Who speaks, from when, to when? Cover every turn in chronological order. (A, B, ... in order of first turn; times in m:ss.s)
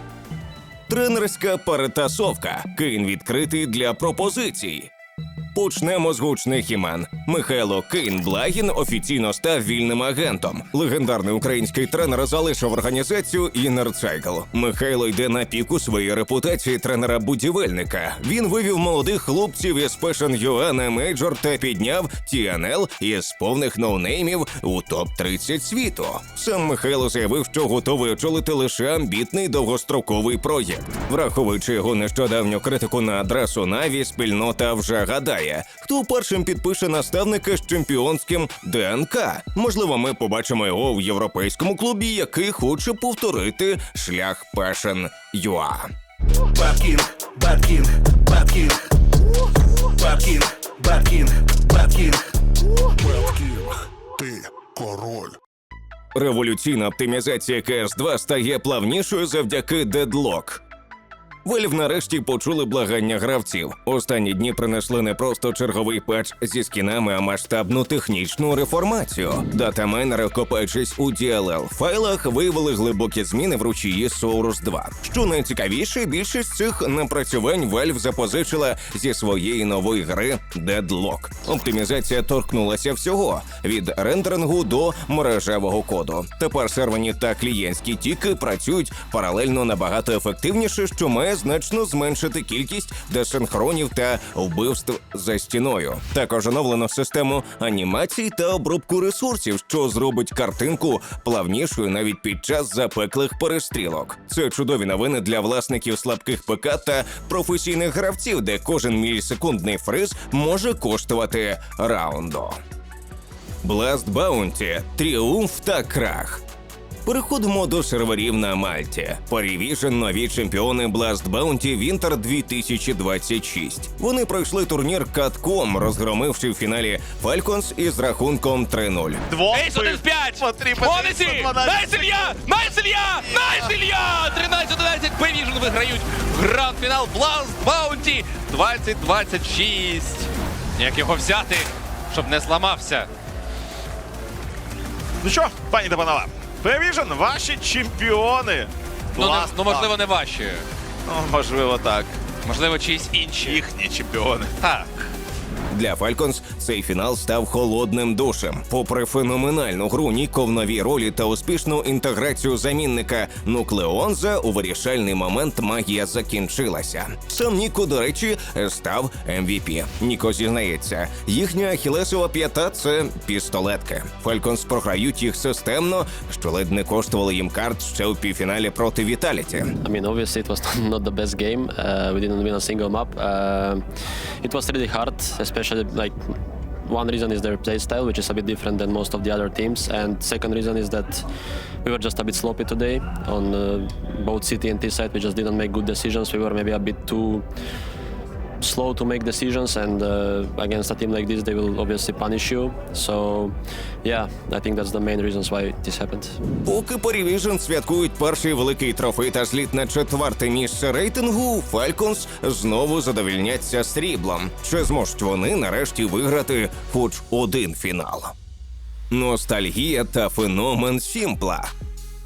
0:00.9-0:04.9 A
0:05.5-0:45.9 A
0:46.8-0:48.1 B
0:48.3-0:48.7 A
0:50.0-0:51.1 A
0:50.0-0:52.1 B
0:51.6-0:52.1 A
0:53.0-0:55.4 C
0:56.1-1:00.6 A
1:01.4-1:52.6 A
1:53.6-1:56.4 A
1:57.0-2:09.2 A
2:09.3-2:12.3 D
2:09.5-2:23.1 E
2:13.2-2:13.6 D
2:25.2-2:29.9 D
2:29.2-2:30.6 E
2:31.0-2:32.2 D
2:32.4-2:33.6 E
2:33.4-2:34.6 D
2:34.6-2:34.9 E
2:35.7-2:59.8 A
2:59.7-3:03.8 F
3:04.4-3:06.2 F
3:06.8-3:11.2 F
3:11.8-3:17.4 F
3:18.6-3:26.4 F
3:26.6-3:38.3 A
3:39.1-3:41.7 A